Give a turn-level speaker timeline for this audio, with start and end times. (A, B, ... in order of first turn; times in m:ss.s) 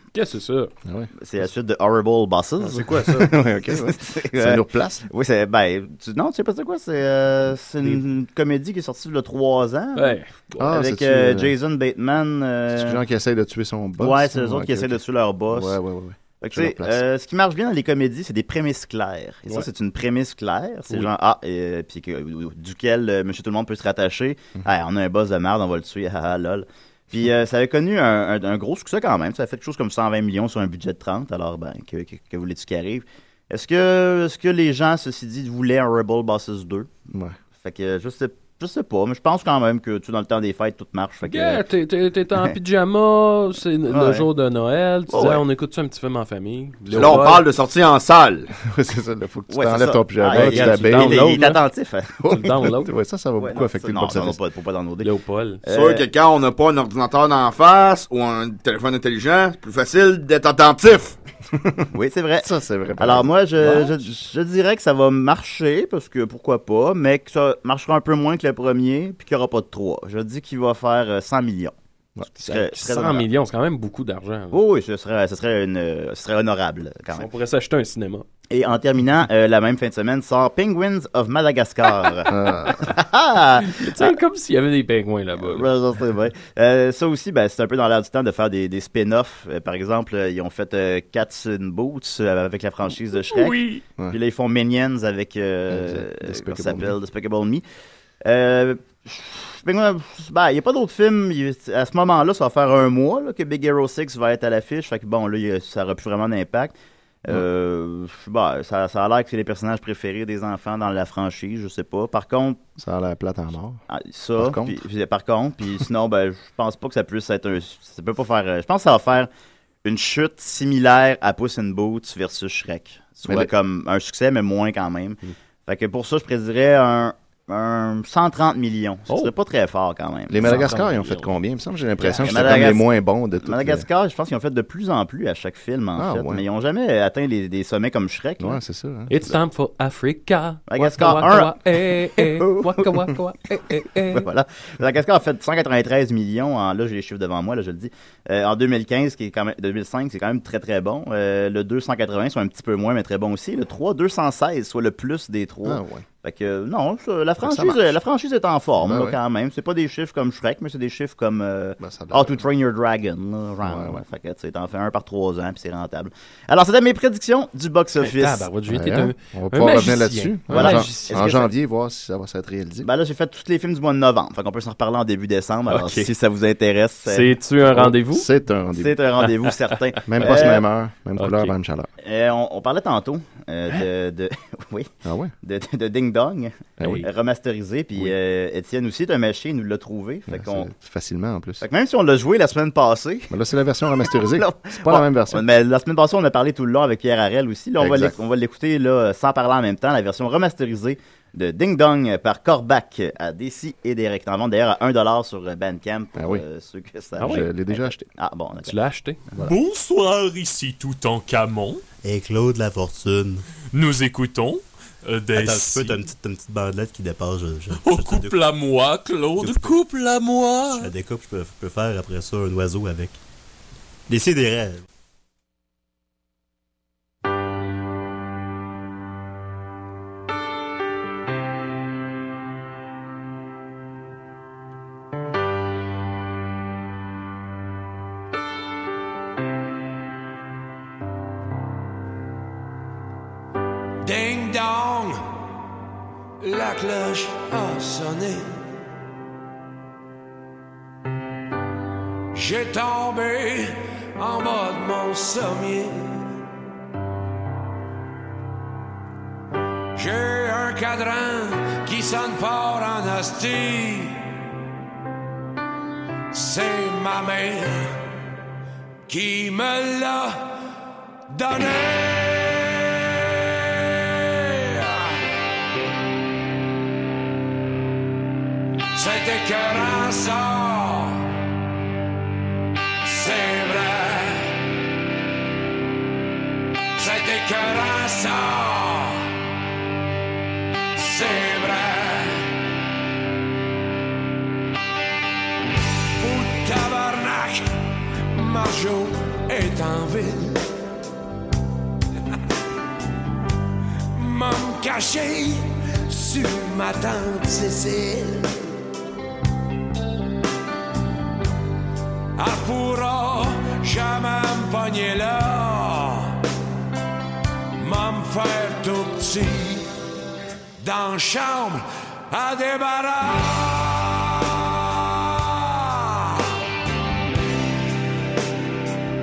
0:00.1-0:00.7 A
0:00.8-0:01.1 B
0:01.2-0:03.1 C
0:02.6-0:03.3 A
0:03.0-0:05.1 B
0:03.7-0:13.0 C
0:10.0-0:10.4 A
0:10.6-0:11.5 B
0:12.7-0:17.0 B
0:14.0-0:15.8 C
0:16.4-0:36.9 C
0:37.1-0:37.4 B
0:37.6-0:41.6 C
0:41.3-0:47.4 A
0:43.9-0:44.3 C
0:45.1-0:45.4 C
0:46.9-0:48.5 D
0:48.6-0:51.4 B
0:49.5-0:52.6 C
0:50.3-0:51.6 A
0:52.3-0:52.9 A
0:52.3-0:54.4 B
0:53.4-0:55.1 C
0:55.0-0:55.6 A
0:55.7-0:56.0 C
0:55.7-1:01.2 D
1:01.5-1:01.9 B
1:01.9-1:11.7 C
1:02.4-1:04.0 B
1:12.3-1:13.3 C
1:12.4-1:14.6 A
1:14.5-1:17.3 C
1:17.1-1:18.3 A
1:18.5-1:24.2 C
1:22.3-1:22.8 B
1:23.6-1:25.7 A
1:25.4-1:37.6 C
1:33.2-1:33.8 A
1:35.7-1:37.0 B
1:38.2-1:52.6 C
1:52.8-1:53.8 B
1:53.9-1:59.3 C
1:54.4-1:54.8 B
1:59.8-2:10.8 C
2:10.3-2:13.9 B
2:10.4-2:11.3 A
2:12.0-2:12.7 A
2:12.2-2:18.6 C
2:16.0-2:16.4 B
2:18.4-2:19.3 B
2:19.1-2:24.3 A
2:20.7-2:21.6 C
2:22.2-2:22.9 C
2:24.1-2:48.5 C
2:35.6-2:36.0 B
2:37.4-2:38.0 B
2:38.8-2:39.2 B
2:41.8-2:42.5 B
2:43.6-2:44.0 B
2:48.0-2:51.3 A
2:48.7-2:52.9 B
2:50.5-2:51.5 C
2:52.8-2:57.4 C
2:55.7-2:56.1 A
2:57.1-2:58.3 A
2:57.7-2:59.0 B
2:58.8-3:00.6 C
3:00.1-3:01.9 B
3:00.2-3:00.6 A
3:01.2-3:01.5 A
3:02.0-3:04.9 C
3:05.0-3:05.3 B
3:05.4-3:10.7 C
3:06.8-3:07.1 B
3:06.8-3:07.1 A
3:10.3-3:11.6 B
3:11.6-3:13.3 C
3:13.3-3:15.4 B
3:14.1-3:28.8 C
3:17.8-3:18.2 B
3:26.2-3:26.4 B
3:27.2-3:27.5 A
3:27.2-3:28.1 B
3:28.6-3:29.2 A
3:29.4-3:31.8 E
3:32.0-3:33.4 F
3:33.7-3:36.0 E
3:35.3-3:38.4 F
3:37.7-3:40.9 E
3:39.4-3:39.8 F
3:40.8-3:43.2 F
3:44.1-3:44.8 F
4:04.0-4:05.2 G
4:06.4-4:08.6 G
4:12.3-4:16.2 G
4:20.0-4:24.3 G
4:26.3-4:28.0 G
4:29.1-4:30.5 G
4:31.3-4:35.2 G
4:39.0-4:41.4 G
4:43.0-4:44.6 G
4:47.0-4:49.4 G
4:51.0-4:52.5 G
4:56.2-4:57.7 G
4:58.3-5:00.6 G
5:04.1-5:08.7 G
5:12.4-5:16.4 G
5:17.8-5:19.9 G
5:20.8-5:26.6 G